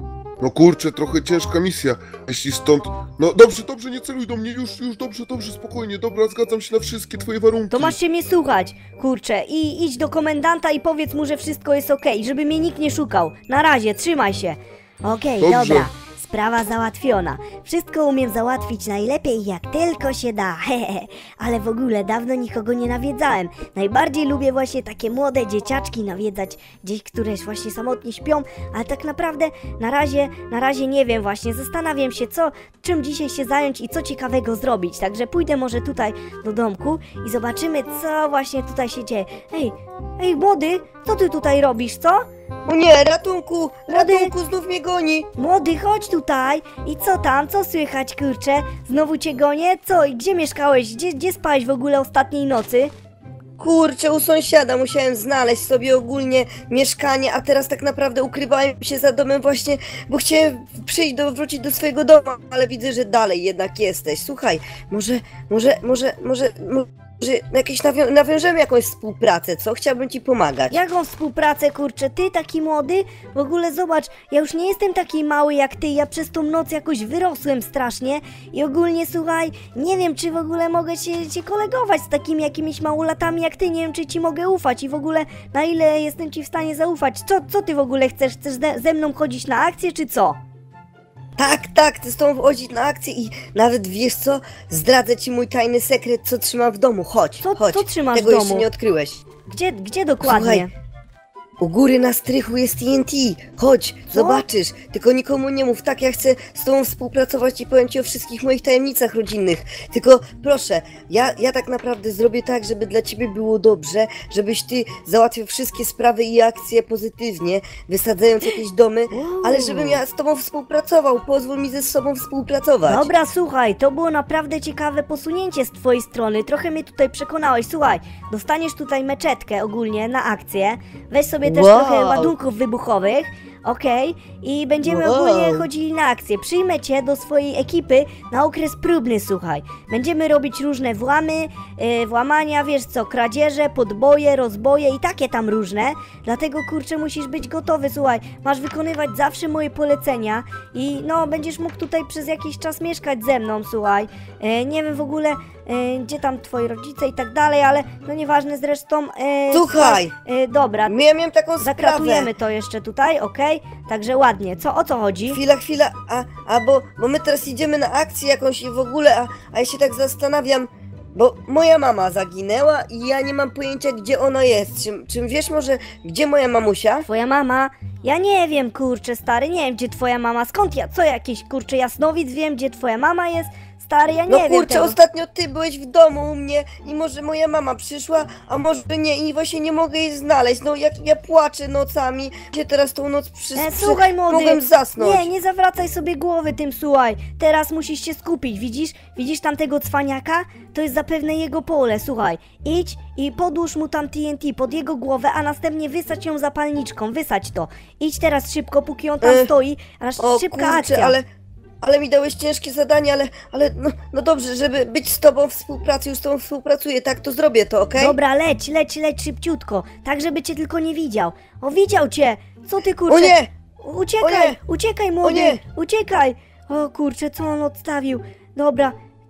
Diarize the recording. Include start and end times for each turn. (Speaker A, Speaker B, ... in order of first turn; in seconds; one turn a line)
Speaker A: 0.4-8.0
Speaker B: 7.7-42.2
Speaker A: 15.4-15.9
Speaker C: 42.7-45.3
Speaker B: 43.9-44.3
Speaker B: 45.4-52.9
Speaker C: 53.6-70.8
Speaker B: 70.7-90.4
Speaker C: 91.4-99.2
Speaker B: 97.4-98.7
Speaker B: 99.5-100.7
Speaker C: 100.2-100.7
Speaker C: 101.6-123.1
Speaker B: 104.1-104.5
Speaker B: 119.1-120.0
Speaker B: 122.9-160.9
Speaker C: 131.5-132.3
Speaker C: 134.8-135.7
Speaker C: 159.5-160.1
Speaker C: 160.9-162.3
Speaker B: 161.6-165.4
Speaker C: 165.3-177.1
Speaker B: 177.1-185.0
Speaker C: 184.3-195.3
Speaker B: 193.6-211.2
Speaker C: 209.2-209.5
Speaker C: 210.2-211.2
Speaker C: 211.8-218.2
Speaker B: 218.0-228.9
Speaker C: 223.1-223.5
Speaker C: 224.2-224.6
Speaker C: 225.2-225.6